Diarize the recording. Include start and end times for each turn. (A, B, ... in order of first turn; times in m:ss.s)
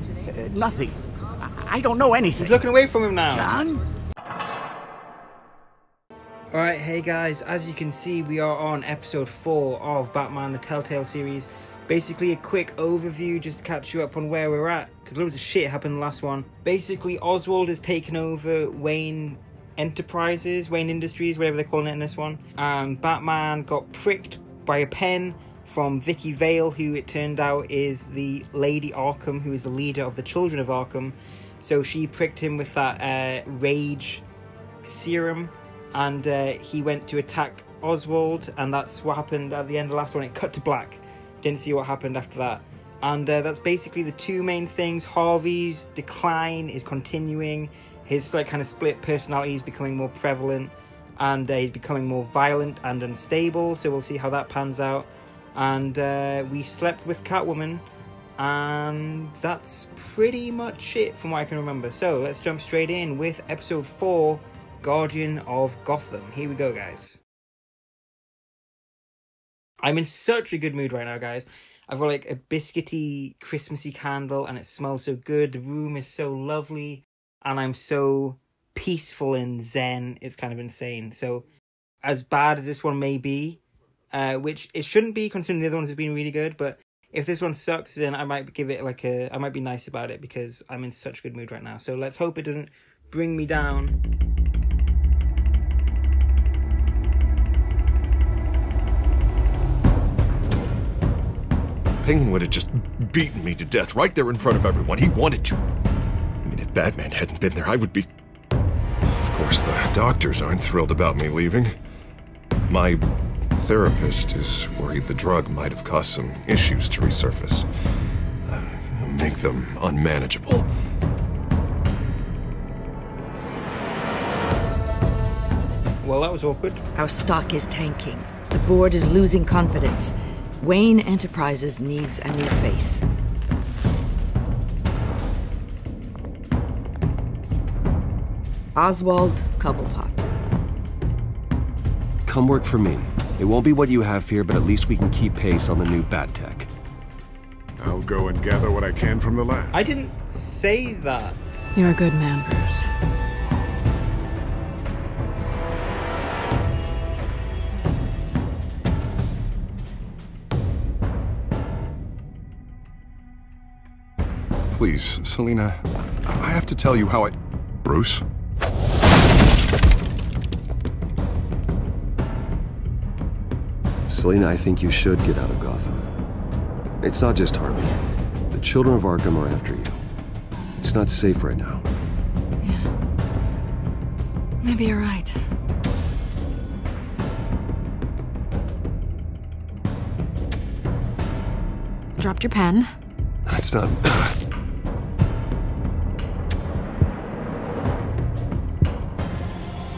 0:00.2-0:02.6 A
0:02.4-0:03.6 B
0:03.3-0:03.8 A
0:06.5-0:34.2 B
0:34.8-0:57.8 B
0:58.4-1:07.2 B
1:09.8-1:21.4 B
1:22.0-1:23.6 B
1:24.1-1:34.0 B
1:42.0-1:45.6 C
1:46.4-1:48.1 C
1:49.2-1:51.7 C
1:52.7-1:53.0 C
1:53.6-1:57.7 C
1:58.5-2:00.7 C
2:06.0-2:06.8 B
2:06.9-2:13.0 D
2:18.8-2:20.3 D
2:22.2-2:26.7 E
2:27.8-2:29.8 F
2:29.7-2:31.6 B
2:31.7-2:32.9 G
2:44.7-2:48.2 C
2:54.1-2:56.1 E
2:57.0-2:58.0 E
2:58.5-3:00.0 E
3:00.8-3:01.8 E
3:02.6-3:02.9 G
3:04.6-3:05.4 G
3:12.2-3:12.9 G
3:13.5-3:14.3 E